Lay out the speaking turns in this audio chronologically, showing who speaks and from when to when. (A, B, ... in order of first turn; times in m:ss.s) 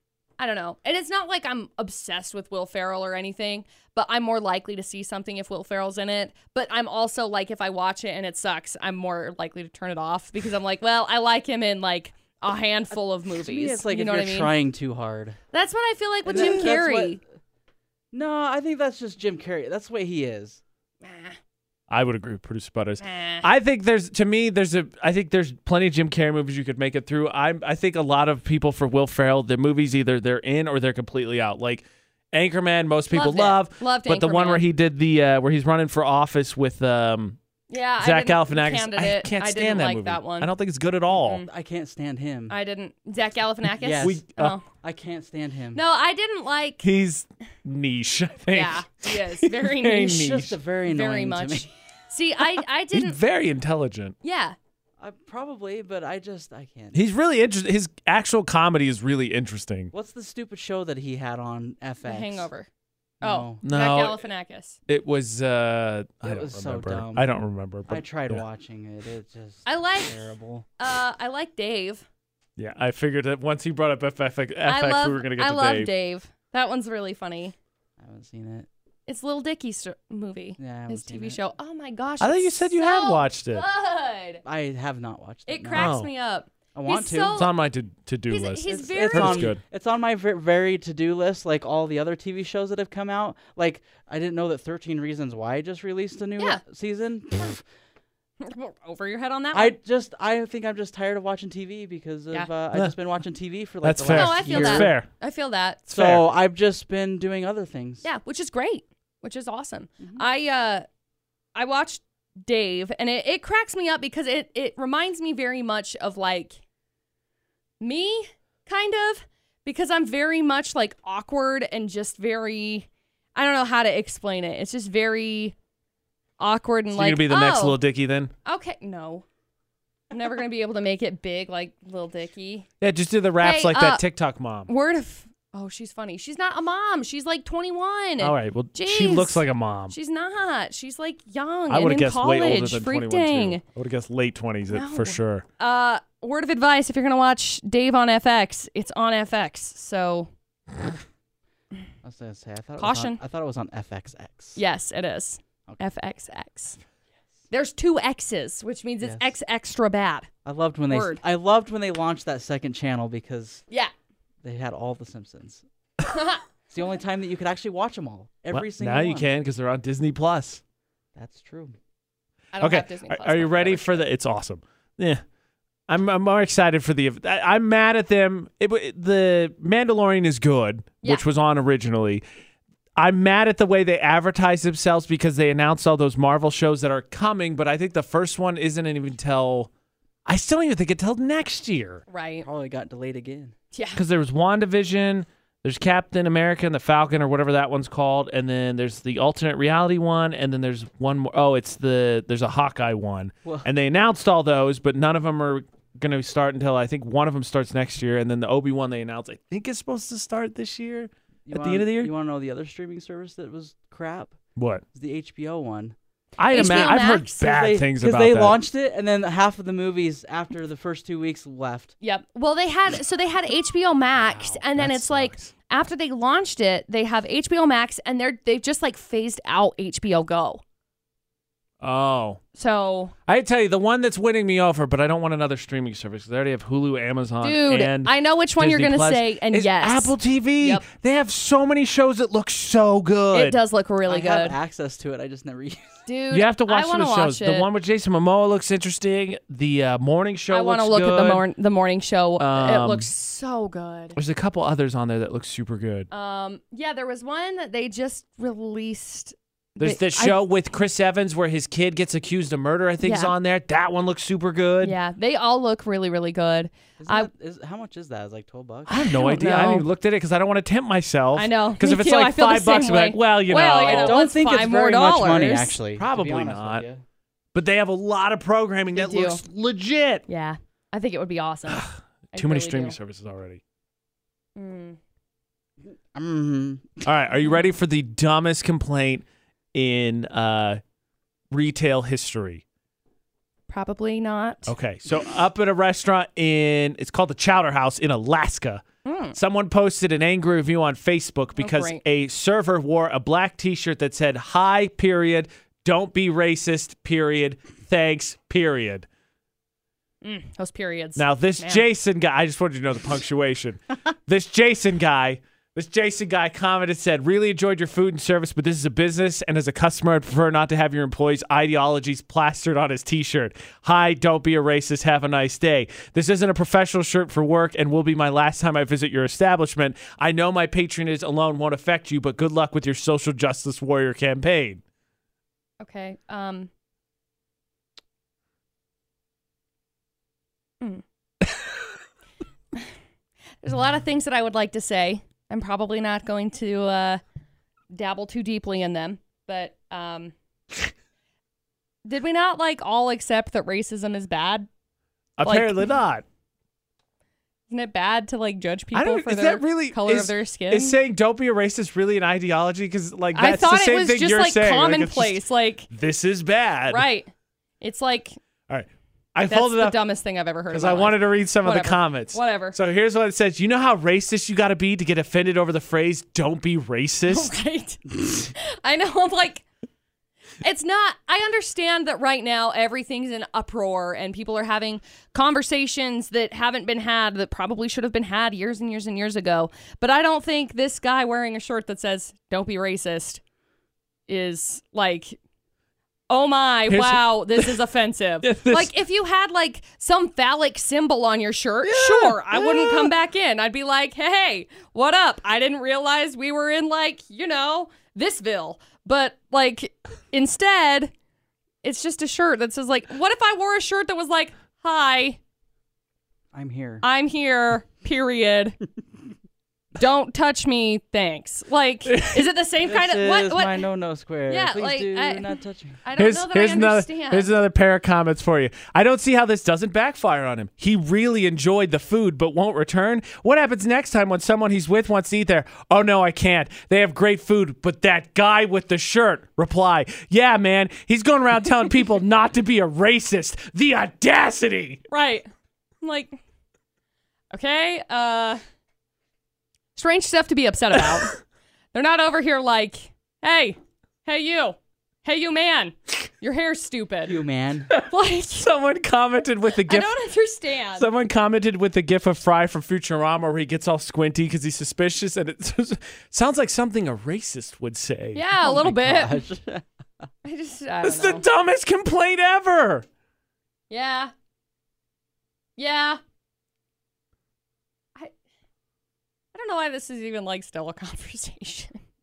0:00.4-0:14.5 A
0:12.9-0:15.4 B
0:15.5-0:17.2 A
0:16.2-0:17.2 B
0:18.1-0:20.6 B
0:21.0-0:21.4 A
0:21.9-0:37.4 C
0:23.0-0:23.5 A
0:33.1-0:34.7 A
0:37.7-0:40.5 A
0:38.0-0:41.4 C
0:41.1-0:41.5 A
0:41.5-0:42.6 B
0:42.5-0:44.6 A
0:43.8-0:44.2 B
0:44.0-0:44.6 C
0:44.8-0:45.8 B
0:45.7-0:46.8 A
0:46.8-0:50.6 C
0:48.5-0:50.3 A
0:50.0-0:51.7 B
0:50.8-0:53.2 A
0:52.9-0:54.1 C
0:54.2-0:54.6 A
0:55.0-0:57.0 B
0:56.9-0:59.9 C
0:59.9-1:02.5 B
1:02.0-1:02.7 A
1:03.2-1:03.6 B
1:03.2-1:04.8 A
1:03.6-1:04.2 C
1:04.9-1:08.4 C
1:06.2-1:07.3 B
1:07.9-1:10.6 B
1:09.6-1:10.2 A
1:10.8-1:12.0 A
1:12.6-1:15.9 C
1:14.6-1:17.5 A
1:18.0-1:18.7 B
1:19.1-1:24.4 A
1:20.6-1:21.4 B
1:22.2-1:23.6 C
1:24.4-1:25.9 B
1:25.4-1:27.5 A
1:25.7-1:26.1 C
1:26.7-1:27.4 B
1:27.3-1:29.6 C
1:28.3-1:29.5 A
1:28.7-1:37.6 B
1:38.4-1:39.8 A
1:39.5-1:44.9 B
1:43.8-1:45.1 C
1:44.1-1:45.8 A
1:45.9-1:46.3 C
1:45.9-1:48.1 B
1:48.0-1:50.8 A
1:51.5-1:56.6 A
1:57.8-2:05.6 A
2:06.4-2:07.8 A
2:06.9-2:08.3 C
2:08.4-2:09.2 A
2:10.1-2:12.7 A
2:12.8-2:14.7 C
2:13.4-2:14.0 A
2:14.7-2:23.6 A
2:18.2-2:19.9 C
2:21.7-2:25.4 C
2:24.7-2:30.3 A
2:32.0-2:34.6 B
2:32.8-2:33.2 A
2:34.6-2:36.8 A
2:37.5-2:40.3 A
2:39.0-2:39.3 B
2:40.4-2:43.6 B
2:40.9-2:41.2 A
2:44.4-2:45.6 B
2:46.1-2:46.4 A
2:46.7-2:49.3 B
2:48.5-2:50.6 C
2:51.2-2:51.8 B
2:52.5-2:54.1 A
2:52.6-2:55.2 C
2:55.9-3:02.2 C
3:03.0-3:09.7 C
3:10.2-3:12.0 C
3:12.1-3:12.4 A
3:12.4-3:13.5 B
3:13.7-3:14.0 A
3:13.9-3:32.1 C
3:31.4-3:34.4 B
3:34.6-3:34.8 C
3:34.9-3:36.0 B
3:36.4-3:38.6 C
3:36.5-3:37.5 A
3:36.6-3:41.9 B
3:42.0-3:50.6 A
3:44.1-3:45.5 C
3:51.8-3:52.4 C
3:52.5-3:53.1 A
3:53.3-4:03.6 C
3:57.4-4:00.8 A
4:03.3-4:04.6 A
4:04.0-4:06.0 B
4:06.0-4:07.7 A
4:06.3-4:11.4 C
4:10.5-4:14.2 A
4:12.4-4:13.1 C
4:14.1-4:16.1 C
4:16.1-4:20.4 A
4:19.8-4:25.0 C
4:23.0-4:23.3 A
4:24.8-4:27.3 A
4:27.0-4:29.0 B
4:28.9-4:34.2 C
4:29.0-4:29.9 A
4:31.3-4:35.8 A
4:33.8-4:37.0 B
4:36.0-4:36.8 C
4:37.5-4:40.2 C
4:38.9-4:39.4 A
4:40.3-4:43.0 A
4:41.7-4:43.6 C
4:44.6-4:45.0 A
4:45.8-4:47.1 B
4:47.0-4:50.8 C
4:51.5-4:52.6 C
4:53.7-4:54.7 A
4:54.6-5:09.1 C
4:59.0-4:59.4 A
5:01.6-5:02.0 A
5:10.2-5:11.8 A
5:11.2-5:34.8 C
5:35.8-5:36.7 A
5:43.6-5:47.2 A
5:47.9-5:50.3 A
5:52.0-5:54.7 A
5:55.4-5:56.2 C
5:55.4-5:55.9 A
5:57.7-6:01.0 A
5:58.9-6:07.0 C
6:03.3-6:05.9 A
6:06.9-6:07.3 A
6:07.8-6:08.4 A
6:08.7-6:10.0 C
6:09.5-6:12.8 A
6:10.7-6:17.5 C
6:17.3-6:19.6 A
6:20.6-6:33.4 A
6:34.3-6:35.4 A
6:36.3-6:51.1 A
6:36.9-6:37.8 C
6:38.4-6:39.0 C
6:41.8-6:43.1 C
6:51.8-6:55.4 A
6:56.5-6:57.0 B
6:57.0-6:58.8 A
7:00.0-7:03.8 A
7:02.1-7:02.4 C
7:02.8-7:06.0 B
7:04.5-7:07.5 A
7:06.2-7:25.0 C
7:25.1-7:25.5 A
7:26.0-7:26.4 A
7:27.5-7:28.6 A
7:30.0-7:31.4 A
7:31.9-7:37.4 A
7:37.2-7:37.9 B
7:37.9-7:40.1 C
7:38.1-7:38.7 A
7:39.7-7:41.1 A
7:40.9-7:48.4 C
7:48.3-7:49.4 A
7:48.6-7:49.8 B
7:50.4-7:51.4 A
7:51.0-7:53.0 C
7:53.9-7:54.3 A
7:55.8-7:56.2 A
7:59.5-8:02.0 A